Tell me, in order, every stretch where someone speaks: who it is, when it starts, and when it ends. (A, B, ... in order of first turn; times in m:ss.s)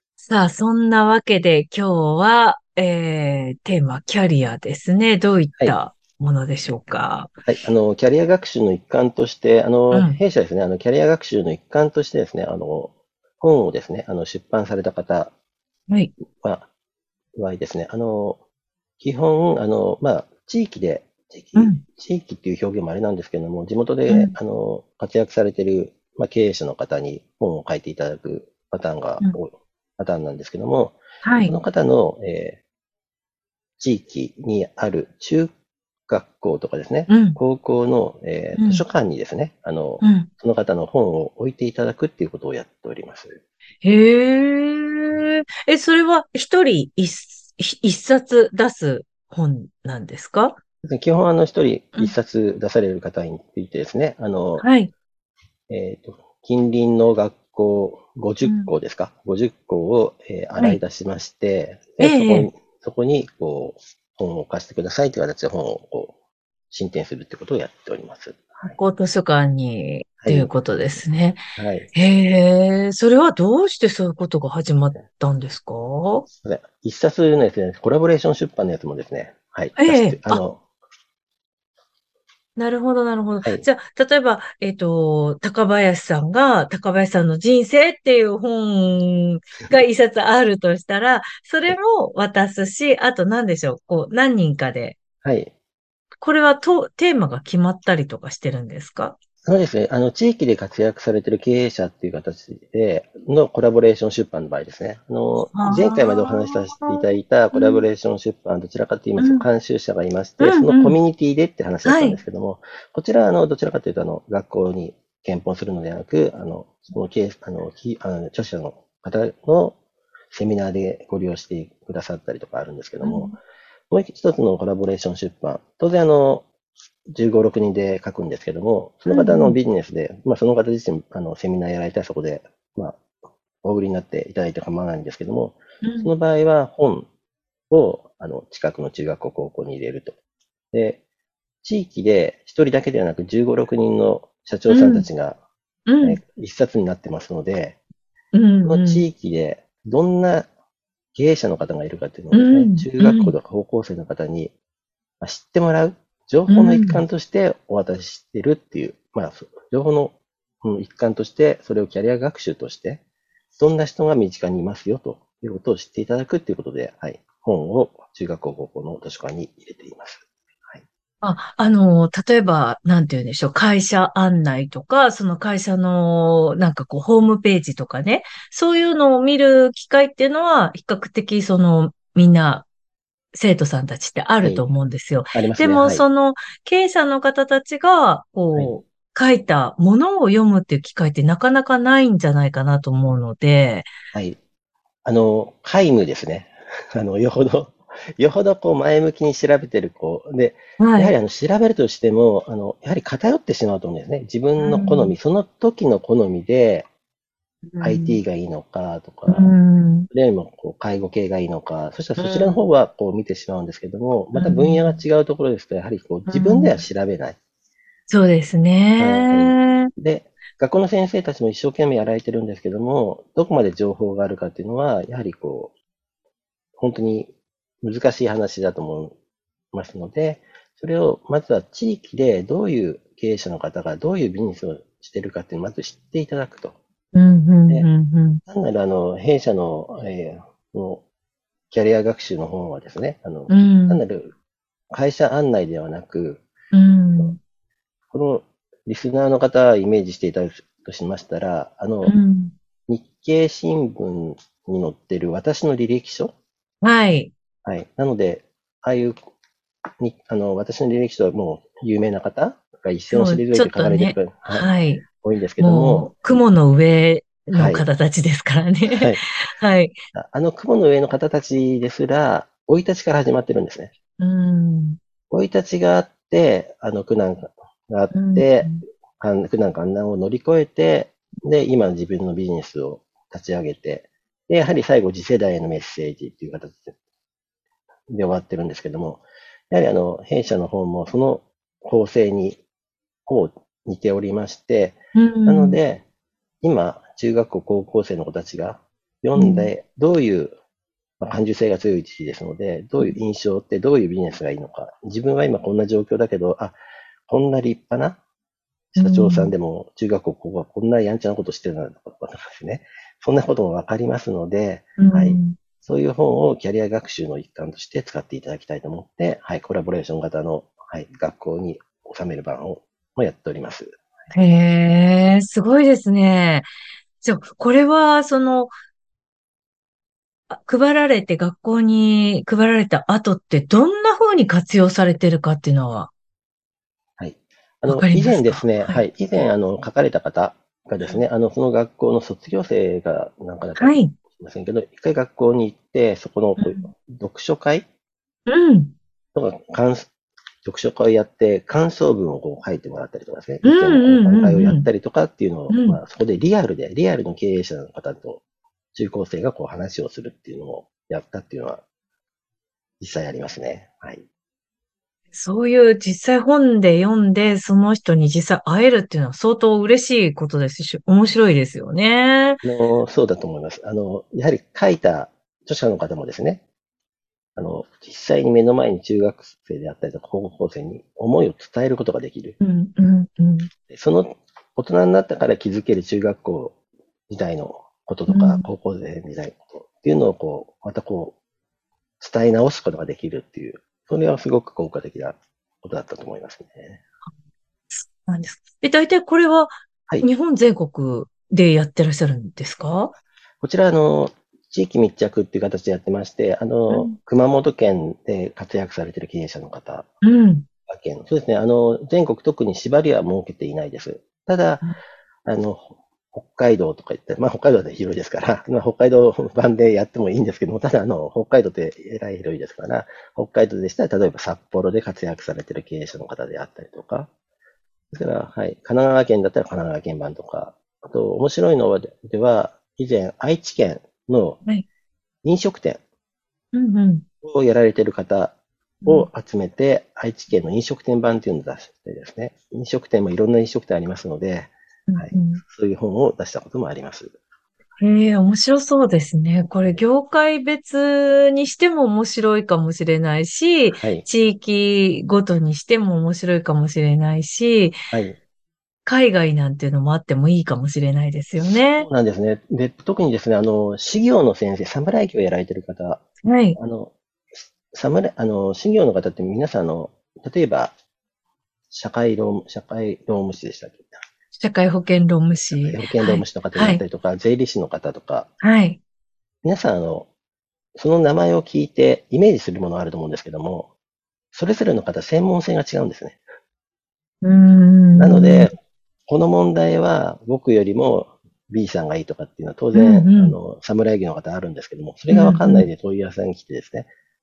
0:00.2-0:07.3 A
0:07.4-0:15.3 B
0:09.9-0:10.2 A
0:16.4-0:16.7 B
0:17.4-0:18.4 B
0:19.0-0:32.6 B
0:21.6-0:21.8 A
0:24.1-0:24.3 A
0:31.2-0:31.5 A
0:33.8-0:35.5 B
0:36.1-0:43.4 B
0:37.1-0:37.4 A
0:38.6-0:38.8 A
0:40.0-0:40.3 A
0:43.8-0:50.6 A
0:50.8-0:54.7 B
0:54.6-0:54.9 A
0:55.7-1:06.1 B
0:58.4-0:58.7 A
1:02.0-1:02.5 A
1:06.7-1:08.8 B
1:08.7-1:11.4 A
1:10.2-1:11.0 B
1:11.6-1:11.9 B
1:11.9-1:16.3 A
1:16.4-1:20.6 B
1:19.8-1:20.4 A
1:22.6-1:35.0 A
1:35.2-1:35.5 B
1:36.2-1:39.2 A
1:39.4-1:59.8 B
1:45.4-1:47.8 A
1:49.2-1:49.5 A
1:50.4-1:51.0 A
1:51.8-1:52.2 A
2:00.3-2:03.3 B
2:03.0-2:03.4 A
2:03.9-2:06.5 B
2:07.1-2:13.0 B
2:09.1-2:09.6 A
2:13.6-2:17.1 B
2:15.8-2:16.1 A
2:17.7-2:20.2 B
2:20.7-2:21.0 B
2:21.6-2:25.4 B
2:24.7-2:25.1 A
2:25.9-2:26.2 A
2:26.0-2:27.8 B
2:28.3-2:29.0 A
2:28.7-2:30.5 B
2:31.1-2:34.5 B
2:32.3-2:33.3 A
2:35.2-2:43.0 B
2:36.5-2:37.0 A
2:43.6-2:50.8 B
2:51.2-3:02.7 A
3:03.3-3:13.9 A
3:04.4-3:04.6 B
3:05.3-3:06.1 B
3:15.0-3:26.9 B
3:20.8-3:21.1 A
3:24.6-3:25.2 A
3:27.7-3:28.2 A
3:27.8-3:29.6 B
3:29.3-3:30.1 A
3:30.1-3:37.4 B
3:32.2-3:32.6 A
3:34.4-3:35.0 A
3:36.3-3:36.8 A
3:38.1-3:39.9 A
3:39.0-3:45.7 B
3:46.8-3:47.3 B
3:47.8-3:49.1 B
3:49.7-3:56.8 B
3:57.1-3:58.4 A
3:58.5-4:01.0 B
4:01.7-4:04.3 B
4:03.5-4:04.0 A
4:04.9-4:06.4 B
4:06.7-4:07.4 A
4:08.1-4:12.2 B
4:12.0-4:12.5 A
4:12.9-4:16.3 B
4:16.8-4:17.3 A
4:17.6-4:19.2 B
4:20.0-4:24.7 B
4:23.1-4:25.0 A
4:25.2-4:26.4 B
4:25.6-4:30.0 A
4:27.5-4:27.9 B
4:28.9-4:29.2 B
4:30.1-4:33.9 B
4:34.2-4:35.0 A
4:35.3-4:47.0 B
4:38.1-4:38.8 A
4:48.1-4:52.6 B
4:53.3-4:56.0 B
4:55.2-4:55.8 A
4:56.6-5:00.5 B
4:59.4-4:59.7 A
5:01.2-5:06.8 B
5:07.3-5:08.2 B
5:08.9-5:24.0 B
5:09.0-5:09.5 A
5:15.0-5:15.6 A
5:24.3-5:26.7 A
5:27.2-5:28.7 A
5:30.5-5:36.1 A
5:37.2-5:47.9 B
5:37.9-5:39.0 A
5:43.8-5:44.1 A
5:46.6-5:46.9 A
5:48.5-5:49.0 A
5:49.3-5:50.1 B
5:50.6-5:58.4 B
5:53.6-5:54.9 A
5:55.7-5:56.0 A
5:58.9-6:01.8 B
6:03.0-6:04.2 B
6:05.3-6:12.6 A
6:12.6-6:16.6 B
6:17.6-6:22.6 B
6:22.6-6:23.7 A
6:23.9-6:26.8 B
6:27.3-6:31.4 B
6:28.3-6:28.7 A
6:32.2-6:37.0 B
6:38.0-6:43.1 A
6:43.6-6:50.1 B
6:46.9-6:47.2 A
6:50.2-6:50.7 A
6:50.9-6:54.8 B
6:55.5-7:07.3 B
7:08.1-7:14.6 B
7:15.4-7:16.0 B
7:16.7-7:17.2 A
7:17.4-7:27.3 B
7:25.1-7:25.6 A
7:28.0-7:38.0 A
7:33.9-7:34.2 B
7:38.1-7:38.4 B
7:39.1-7:42.1 A
7:41.6-7:46.2 B
7:46.4-7:46.8 A
7:46.8-7:50.9 B
7:51.9-7:54.2 B
7:54.6-7:57.0 A
7:55.7-7:58.5 B
7:58.6-7:59.0 A
7:59.6-8:00.3 B
8:01.0-8:03.9 B
8:04.5-8:06.4 B
8:07.4-8:08.7 A
8:08.2-8:08.7 B
8:09.3-8:17.1 B
8:12.9-8:13.6 A
8:15.3-8:15.9 A